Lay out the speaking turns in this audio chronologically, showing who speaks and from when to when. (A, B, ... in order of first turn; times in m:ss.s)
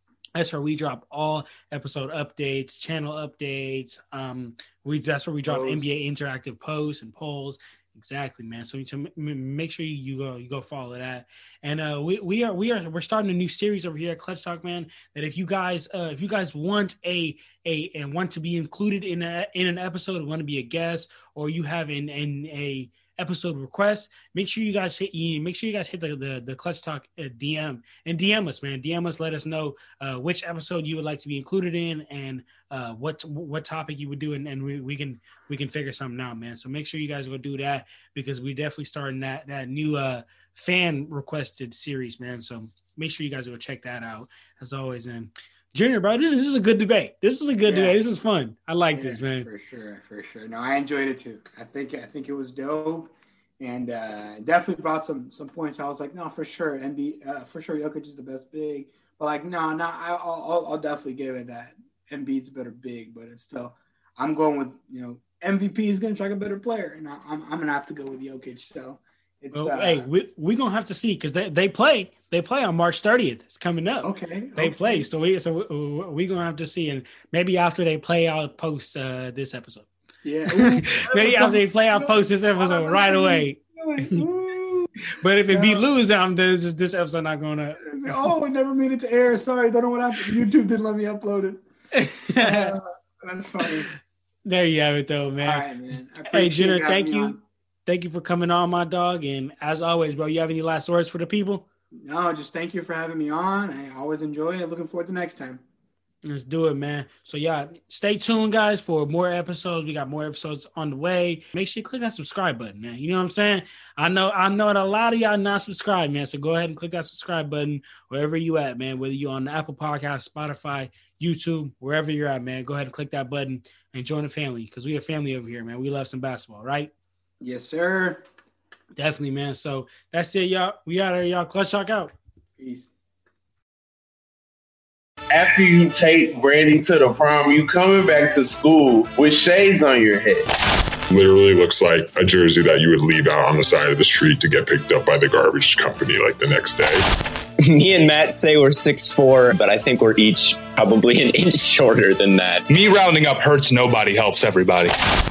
0:00.3-0:49.5 A
0:05.4-0:06.0 B
0:47.6-0:48.0 B
0:48.9-1:10.1 B
1:09.5-1:19.9 A
1:14.0-1:15.1 B
1:20.2-1:24.9 B
1:20.5-1:24.2 A
1:25.2-1:28.2 A
1:25.5-1:25.8 B
1:27.8-1:31.6 B
1:31.9-1:32.8 A
1:32.4-1:33.9 B
1:33.6-1:33.9 A
1:34.4-1:35.7 A
1:35.4-1:37.4 B
1:36.2-1:41.7 A
1:42.0-1:45.6 B
1:46.2-2:06.9 A
2:07.4-2:08.2 B
2:09.0-2:12.1 A
2:12.6-2:12.9 B
2:15.3-2:20.5 C
2:21.1-2:27.1 D
2:27.6-2:32.6 E
2:32.7-2:35.0 F